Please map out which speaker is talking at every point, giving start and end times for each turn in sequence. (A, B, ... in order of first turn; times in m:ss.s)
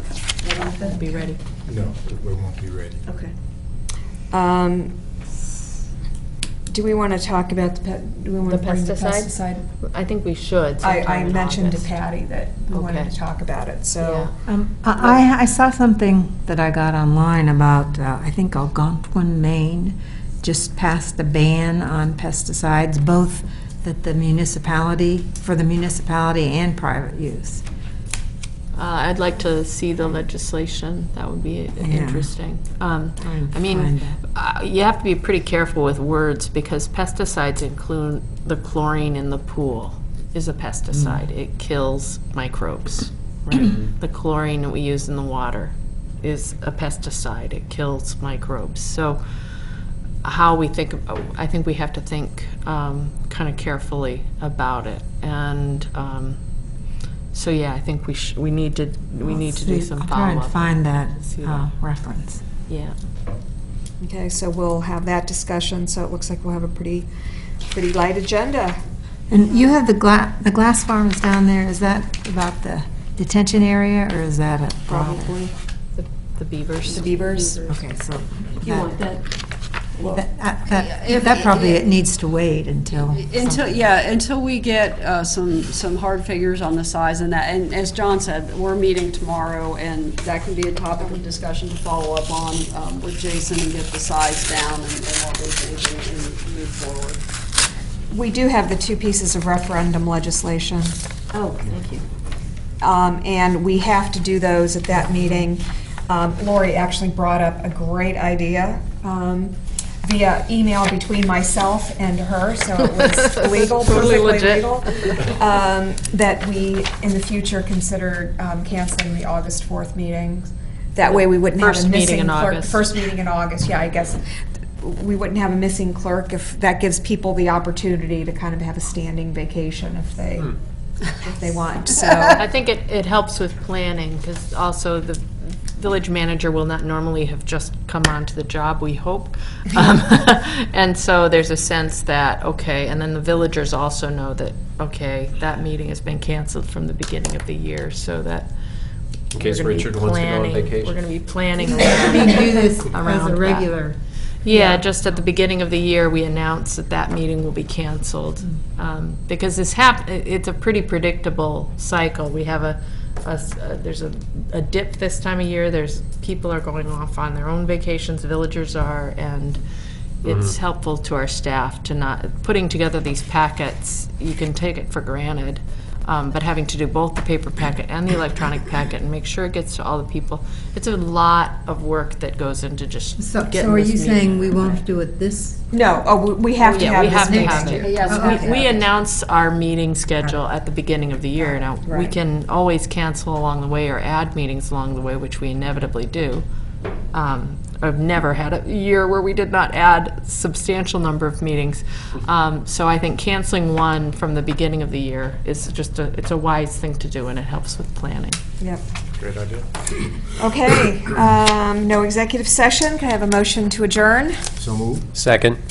0:00.7-0:01.4 A
0:01.6-0:03.0 B
0:04.3-0:04.9 C
0:06.7-0:09.6 C
0:08.4-0:11.9 A
0:10.8-0:14.3 C
0:12.7-0:13.1 A
0:14.0-0:14.3 A
0:14.4-0:27.6 D
0:28.7-0:49.2 A
0:31.8-0:32.3 D
0:33.2-0:34.2 D
0:41.0-0:41.2 D
0:50.2-0:56.4 A
0:57.3-1:01.7 A
0:59.2-1:02.4 D
1:02.7-1:03.0 A
1:04.0-1:07.1 C
1:07.7-1:08.8 C
1:09.3-1:15.3 D
1:14.9-1:17.4 A
1:16.9-1:17.7 C
1:17.6-1:19.0 D
1:18.6-1:19.2 A
1:20.0-1:23.9 D
1:20.7-1:21.8 E
1:23.0-1:37.2 E
1:38.1-1:41.0 C
1:41.3-1:42.0 A
1:42.8-2:04.2 C
1:53.0-1:55.2 A
2:01.0-2:02.9 A
2:04.8-2:10.6 C
2:11.1-2:12.4 C
2:12.3-2:28.5 A
2:29.3-2:31.0 F
2:29.4-2:33.7 A
2:31.8-2:34.0 D
2:34.4-2:49.6 A
2:50.2-3:04.8 A
2:50.2-2:50.5 F
3:03.2-3:05.6 D
3:05.7-3:08.1 C
3:06.6-3:16.4 A
3:07.2-3:08.6 D
3:07.8-3:08.7 E
3:11.5-3:12.1 C
3:17.1-3:28.4 A
3:29.2-3:29.7 B
3:30.4-3:34.4 C
3:34.6-3:35.1 B
3:35.1-3:35.6 F